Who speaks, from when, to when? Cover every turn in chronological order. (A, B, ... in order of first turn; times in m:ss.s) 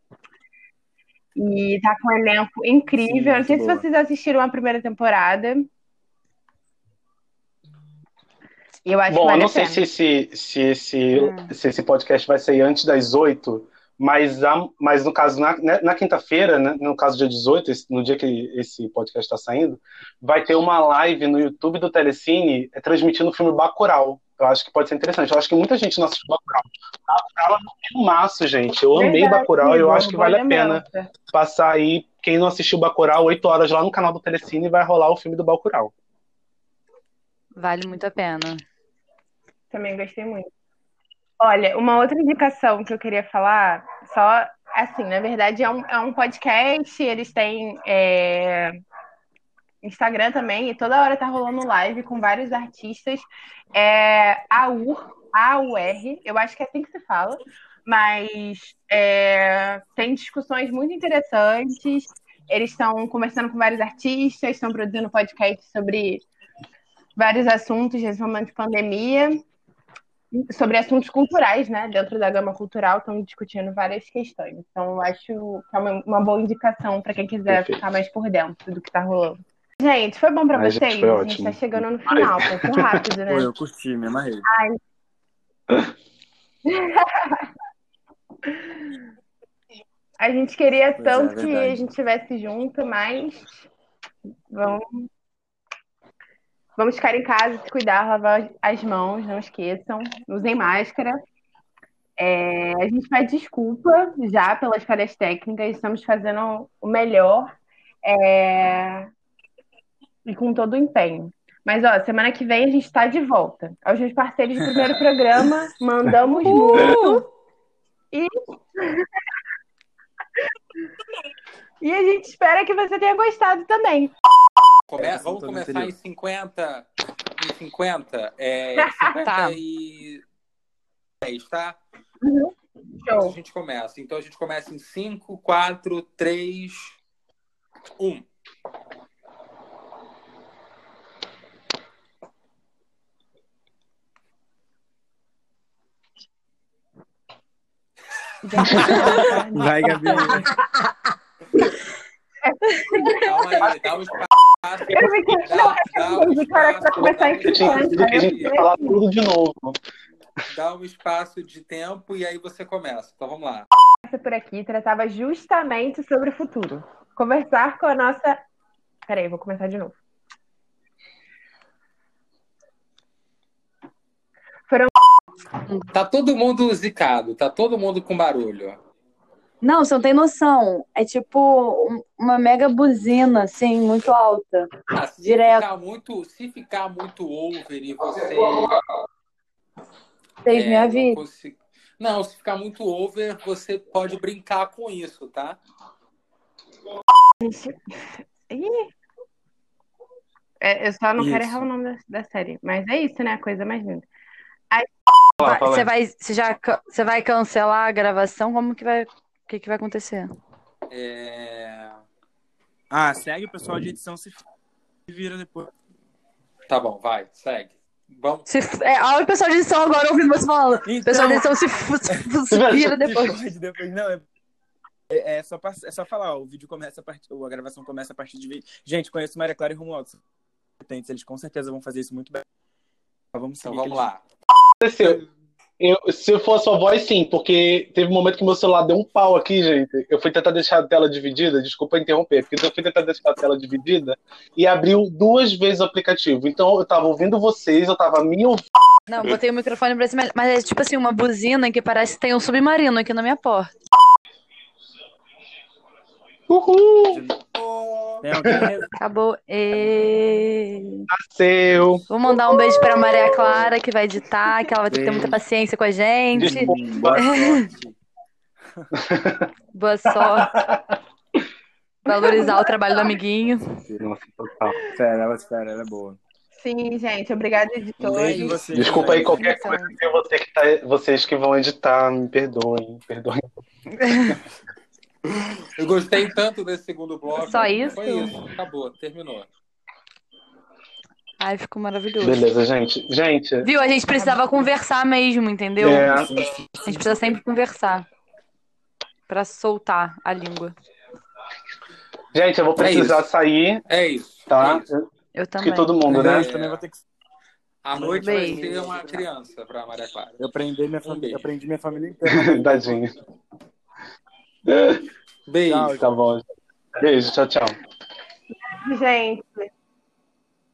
0:01.4-0:05.7 A
0:03.0-0:03.8 B
0:08.8-0:09.8 A
0:09.1-0:35.9 C
0:11.1-0:11.5 D
0:29.0-0:31.1 A
0:37.6-0:38.6 D
0:39.7-0:40.5 A
0:41.4-0:48.8 A
0:49.8-1:06.3 A
1:07.2-1:09.4 A
1:10.3-1:23.5 A
1:17.5-1:17.8 C
1:20.5-1:22.9 C
1:23.3-1:24.5 B
1:24.5-1:24.8 A
1:26.7-1:27.5 A
1:28.5-1:29.0 A
1:30.2-1:33.7 A
1:31.0-1:31.9 B
1:34.5-1:35.1 A
1:36.8-1:41.2 A
1:42.2-1:49.1 A
1:50.2-1:57.3 A
1:54.6-1:55.0 B
1:56.4-1:56.8 B
1:56.4-1:57.2 D
1:58.1-1:59.1 A
2:01.8-2:04.1 A
2:04.9-2:10.2 E
2:05.0-2:06.0 B
2:08.8-2:09.1 A
2:09.2-2:09.6 D
2:11.2-2:11.8 E
2:12.2-2:13.4 A
2:13.1-2:17.0 E
2:18.0-2:18.3 E
2:28.4-2:30.4 A
2:28.7-2:29.0 C
2:28.8-2:29.2 E
2:28.9-2:30.5 B
2:32.5-2:33.7 A
2:33.2-2:38.6 E
2:34.9-2:39.0 A
2:37.4-2:39.8 C
2:40.5-2:43.7 E
2:44.0-2:48.4 A
2:49.1-2:50.0 A
2:54.7-2:54.9 A
2:55.8-2:58.8 E
2:59.6-3:05.6 D
3:04.9-3:08.8 E
3:10.4-3:11.2 D
3:10.5-3:15.6 E
3:17.4-3:17.8 A
3:18.5-3:18.9 A
3:20.6-3:24.1 A
3:21.2-3:21.7 B
3:25.4-3:25.9 C
3:25.4-3:30.3 D
3:30.9-3:32.0 E
3:32.9-3:34.4 B
3:35.1-3:35.7 B
3:36.7-3:38.5 E
3:38.5-3:43.4 D
3:40.8-3:41.5 B
3:42.5-3:43.0 C
3:42.8-3:44.2 B
3:45.1-3:50.2 B
3:50.8-3:52.4 B
3:53.3-3:54.1 B
3:53.6-3:54.2 E
3:54.8-3:55.2 C
3:55.8-4:08.7 C
4:09.1-4:13.7 D
4:16.5-4:17.2 C
4:17.1-4:18.9 B
4:18.5-4:18.8 C
4:19.0-4:21.1 D
4:21.1-4:22.0 C
4:22.1-4:27.6 D
4:23.0-4:23.7 C
4:24.9-4:25.4 B
4:26.3-4:27.3 C
4:26.3-4:28.0 B
4:29.0-4:29.5 C
4:29.7-4:30.6 D
4:30.1-4:30.9 C
4:32.1-4:33.8 D
4:34.0-4:34.8 C
4:34.9-4:36.2 B
4:36.6-4:38.6 A
4:38.0-4:39.6 B
4:38.7-4:43.4 C
4:38.9-4:40.0 D
4:44.0-4:44.4 D
4:45.4-4:49.5 E
4:47.4-4:48.5 D
4:51.4-4:52.5 D
4:52.2-4:53.7 C
4:53.6-4:56.3 D
4:55.8-4:56.4 C
4:55.8-4:57.2 B
4:56.8-4:58.1 D
4:59.3-5:00.7 D
5:02.3-5:03.8 C
5:02.8-5:03.3 E
5:03.9-5:04.9 E
5:04.5-5:05.0 C
5:05.4-5:06.0 D
5:05.6-5:06.5 C
5:06.1-5:07.0 B
5:06.1-5:06.8 E
5:07.8-5:10.4 E
5:07.9-5:09.3 B
5:08.2-5:08.7 D
5:10.4-5:13.0 B
5:11.0-5:11.5 E
5:12.3-5:13.1 C
5:14.7-5:15.0 C
5:15.5-5:16.0 E
5:15.7-5:16.1 B
5:15.9-5:16.4 C
5:17.0-5:17.8 C
5:18.7-5:19.7 A